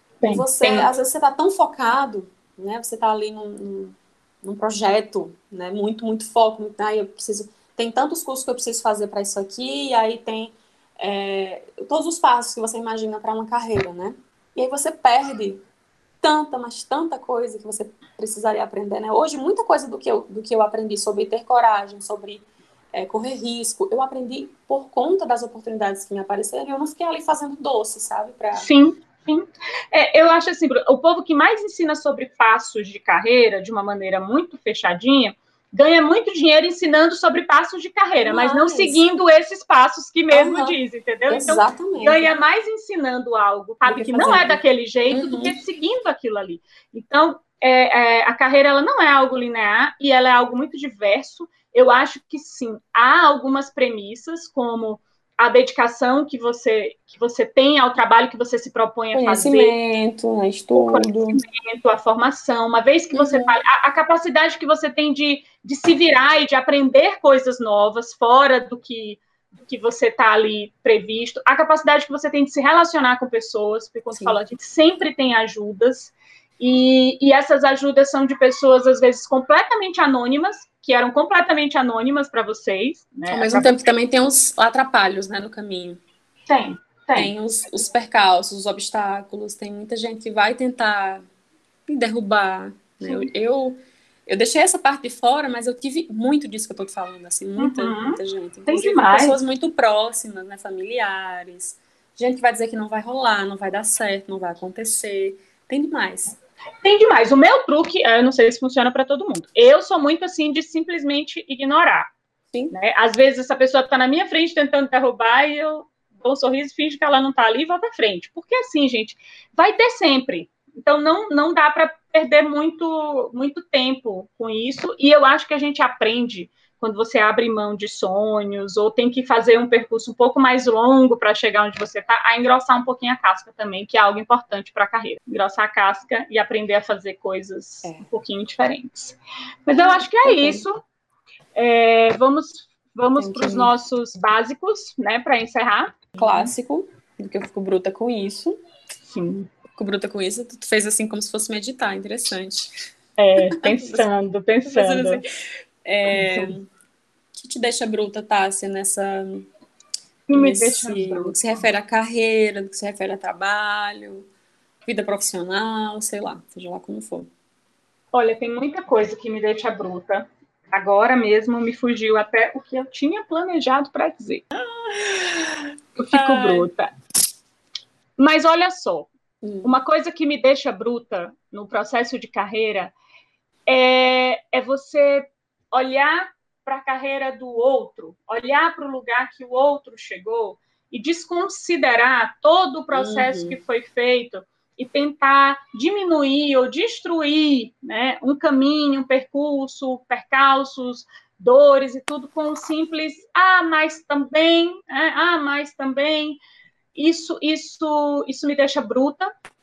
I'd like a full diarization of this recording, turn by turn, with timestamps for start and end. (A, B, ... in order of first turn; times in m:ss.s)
0:00.2-0:00.9 A
0:00.3-0:15.6 B
0:16.2-0:28.7 B
0:28.5-0:59.7 A
0:38.2-0:39.0 B
0:40.3-0:40.8 B
0:41.3-0:42.3 B
0:43.9-0:45.6 B
0:59.1-1:01.4 B
1:00.7-1:23.8 A
1:03.1-1:03.5 B
1:23.3-1:26.0 B
1:26.5-1:27.3 A
1:27.2-1:31.2 B
1:31.9-1:46.4 B
1:33.0-1:33.3 A
1:37.6-1:39.4 A
1:46.8-1:52.1 A
1:52.7-2:20.8 A
2:19.7-2:20.6 B
2:21.6-2:26.5 A
2:23.2-2:23.7 B
2:26.2-2:28.6 B
2:29.0-2:29.5 A
2:29.7-2:32.7 B
2:33.2-2:35.2 A
2:33.5-2:34.1 B
2:34.6-2:35.2 B
2:35.8-2:36.6 B
2:36.1-2:36.6 A
2:37.3-2:39.5 B
2:40.3-2:41.4 A
2:40.3-2:44.2 B
2:44.8-2:47.3 B
2:48.1-2:54.5 A
2:54.6-2:56.7 B
2:56.0-2:56.9 A
2:58.2-2:59.1 A
2:59.4-2:59.7 B
2:59.6-3:02.9 A
3:03.7-3:26.4 A
3:12.9-3:13.6 B
3:26.9-3:29.3 A